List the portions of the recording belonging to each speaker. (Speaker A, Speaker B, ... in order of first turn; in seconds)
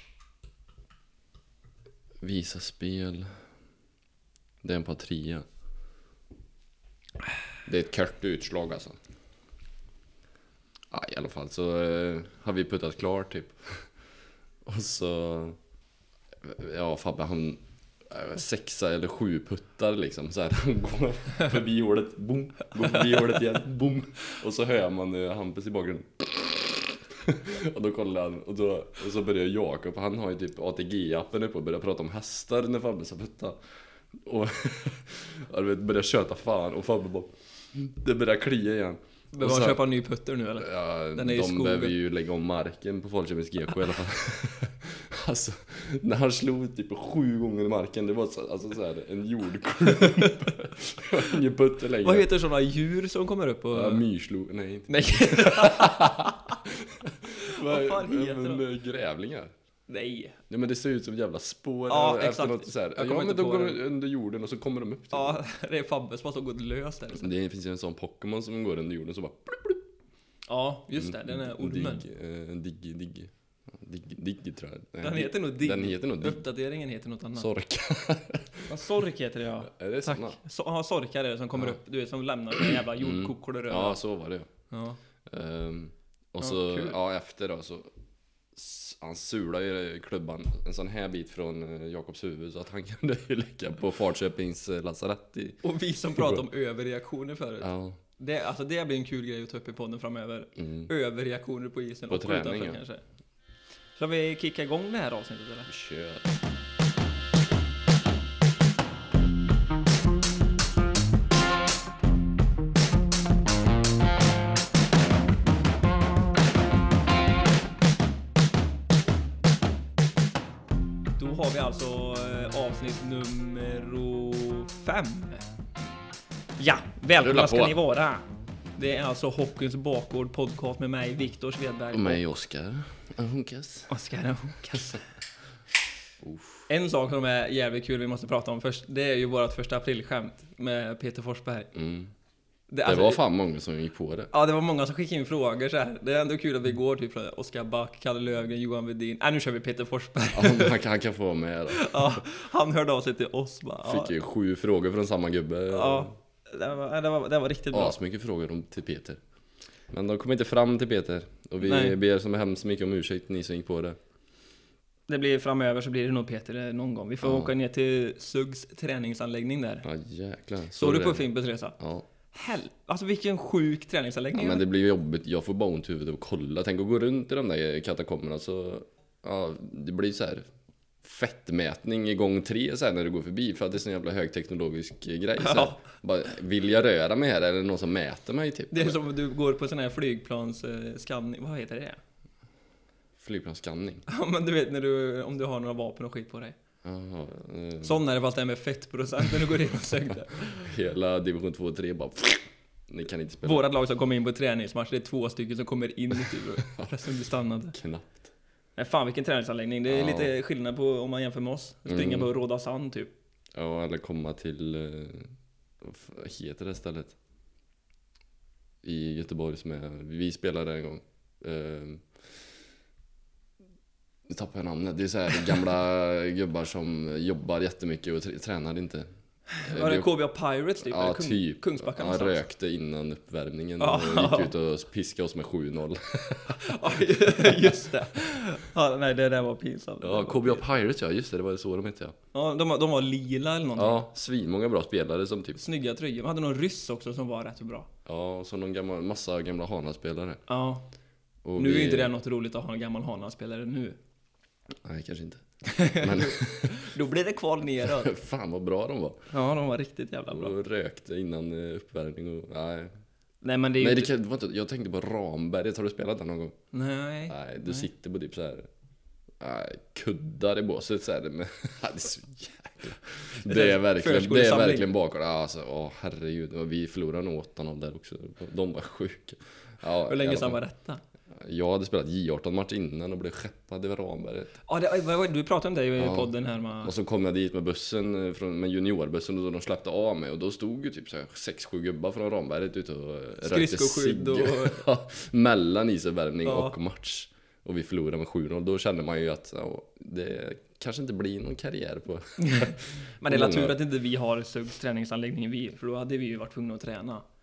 Speaker A: 2.2-3.3, 4.6-5.5, 7.7-9.0, 10.9-13.9, 14.7-15.6, 16.4-33.6, 34.1-39.8, 40.6-52.3, 53.7-59.5, 60.5-65.4, 67.1-69.8, 70.9-76.4, 77.4-78.7, 79.6-80.4, 83.0-84.5, 85.3-87.9, 88.5-96.4, 97.6-98.0, 100.6-100.9, 102.1-102.8, 105.7-106.3, 127.2-127.8, 131.9-133.9, 136.2-136.7, 141.7-142.1, 142.8-144.3, 150.3-152.2, 153.8-156.1, 157.7-159.2, 159.9-164.0, 167.2-167.5, 169.8-171.3, 171.8-172.1, 174.3-180.5, 181.0-189.0, 193.2-194.1, 196.8-198.0, 200.4-203.7, 206.7-207.0, 207.7-208.3, 209.9-210.3, 211.9-212.3, 213.6-217.2, 218.8-222.1, 224.3-229.1, 229.6-230.1, 230.8-237.8, 240.0-242.2, 243.8-245.6, 248.1-250.4, 251.4-252.1, 254.8-256.9, 257.9-259.3, 260.3-263.0, 263.8-266.6, 267.3-268.7, 269.4-280.6, 281.4-284.6, 286.0-286.3, 286.8-303.8
Speaker B: 39.3-42.0, 49.9-50.4, 52.0-54.0, 54.9-56.3, 57.6-58.6, 59.9-60.4, 61.9-63.8, 65.1-67.3, 70.5-72.0, 75.0-77.5, 78.7-84.0, 84.7-85.0, 86.4-87.0, 95.6-103.0, 104.0-105.7, 121.2-125.5, 126.6-132.2, 133.9-135.0, 136.7-141.7, 142.7-143.2, 144.3-150.8, 151.7-154.1, 155.7-157.9, 161.6-162.0, 165.1-169.9, 170.8-171.8, 172.3-174.6, 185.4-185.8, 188.7-192.0, 194.1-196.6, 197.8-200.7, 203.4-207.8, 208.8-213.1, 229.5-232.4, 233.8-234.5, 236.6-240.6, 242.3-244.0, 245.6-247.9, 250.5-250.8, 251.6-254.0, 255.7-258.1, 259.3-260.5, 263.4-264.1, 266.7-267.9, 273.4-274.9, 280.1-281.0, 284.7-286.9, 293.4-294.8, 296.4-296.7, 302.4-307.2